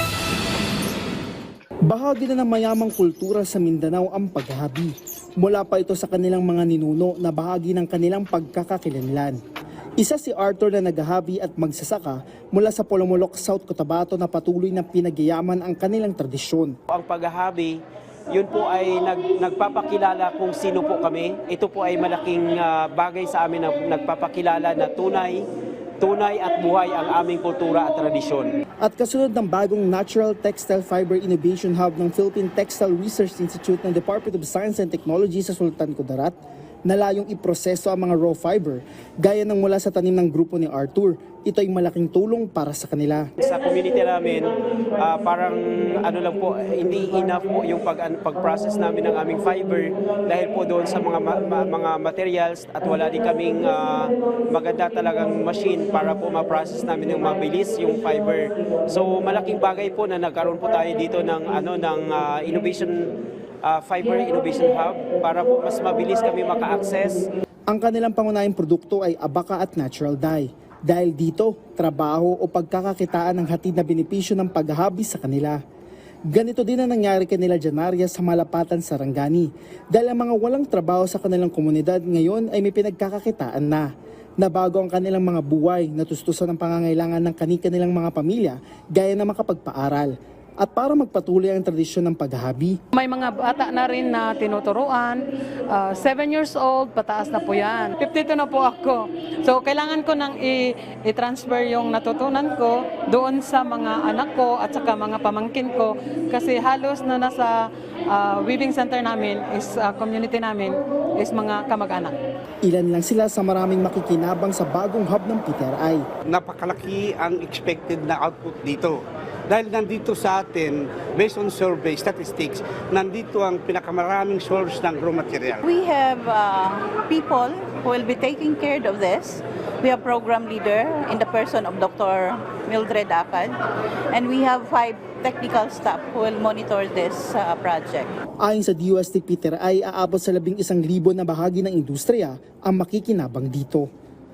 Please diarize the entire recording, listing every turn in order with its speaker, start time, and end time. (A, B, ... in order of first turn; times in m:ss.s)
0:01.9-0:09.4 A
0:10.0-0:16.7 A
0:16.9-0:17.8 B
0:18.3-0:25.5 B
0:26.0-0:28.6 B
0:28.8-0:43.3 A
0:43.4-1:07.3 B
1:07.7-1:15.6 A
1:16.3-1:23.9 A
1:24.4-1:32.8 A
1:33.0-1:52.2 C
1:52.6-1:56.0 A
1:56.3-2:05.6 D
2:05.6-2:13.6 E
2:14.1-2:18.1 E
2:18.4-2:23.9 A